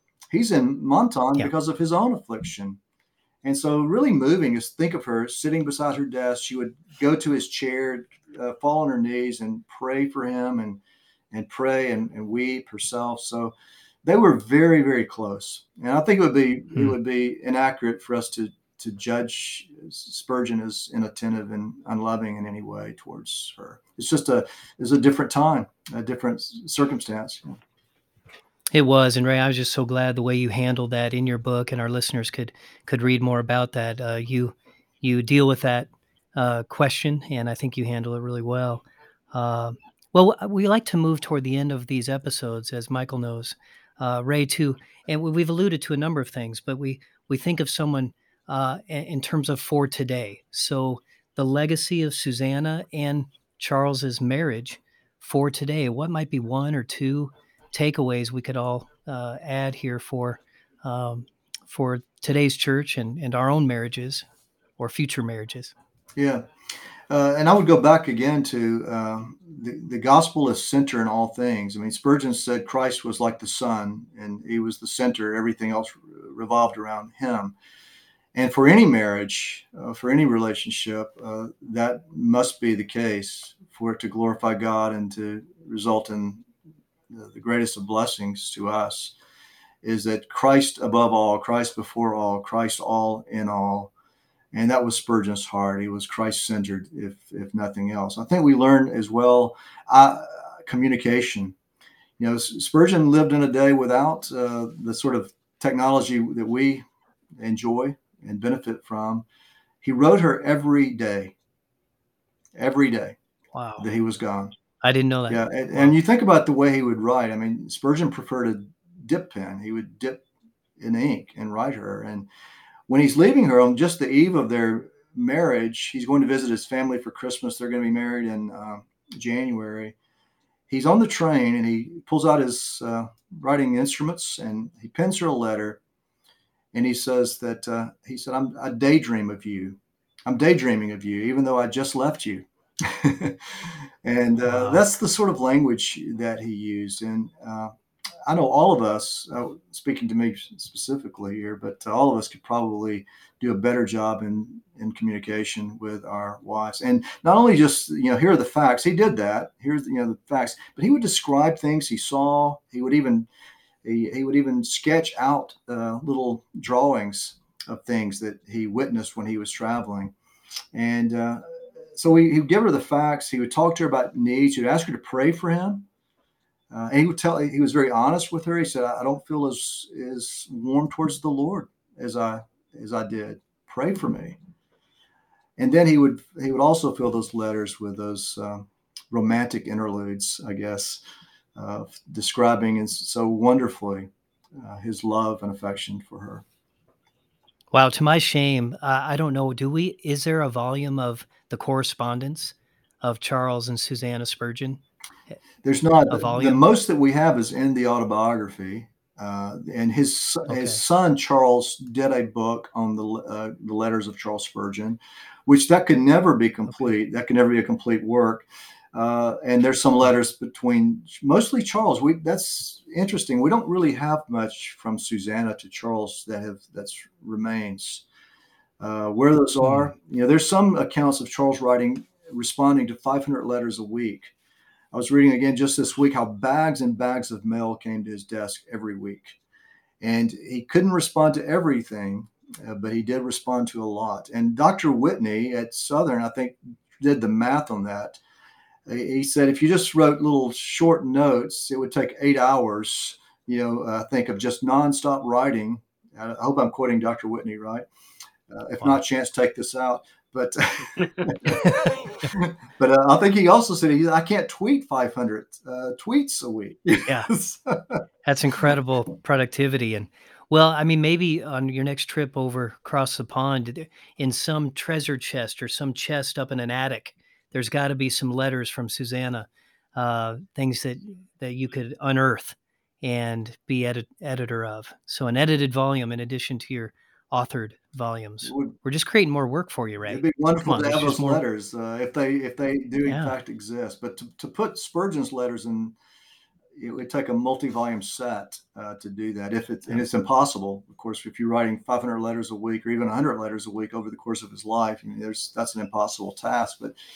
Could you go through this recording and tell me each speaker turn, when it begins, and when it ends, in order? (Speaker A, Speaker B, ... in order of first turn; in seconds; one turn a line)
Speaker A: 0.3-2.8
Speaker A: 3.4-10.8
Speaker A: 11.3-27.6
Speaker B: 28.7-64.2
Speaker B: 64.8-65.7
Speaker A: 66.2-66.5
Speaker A: 67.1-77.5
Speaker A: 78.3-86.4
Speaker A: 87.1-89.2
Speaker A: 89.8-93.9
Speaker A: 94.5-101.5
Speaker A: 102.2-106.8
Speaker A: 107.4-109.2
Speaker A: 109.8-111.3
Speaker A: 112.5-113.2
Speaker B: 113.5-113.8
Speaker A: 113.8-114.5
Speaker B: 114.8-115.9
Speaker A: 115.3-120.2
Speaker A: 120.8-122.3
Speaker A: 122.9-129.9
Speaker A: 130.7-135.8
Speaker A: 136.7-147.7
Speaker B: 144.5-144.8
Speaker A: 148.2-163.3
Speaker A: 163.8-170.1
Speaker A: 170.7-175.9
Speaker A: 176.7-184.4
Speaker A: 185.6-191.0
Speaker A: 191.5-196.4
Speaker B: 197.7-204.8
Speaker A: 205.6-228.0
Speaker B: 206.1-206.6
Speaker B: 210.5-210.8
Speaker A: 228.8-234.3
Speaker A: 234.9-239.4
Speaker A: 240.0-248.2
Speaker A: 248.8-257.9
Speaker A: 258.5-268.0
Speaker B: 268.2-291.4
Speaker A: 288.4-288.8
Speaker A: 290.1-295.9
Speaker B: 293.1-293.3
Speaker A: 296.8-306.9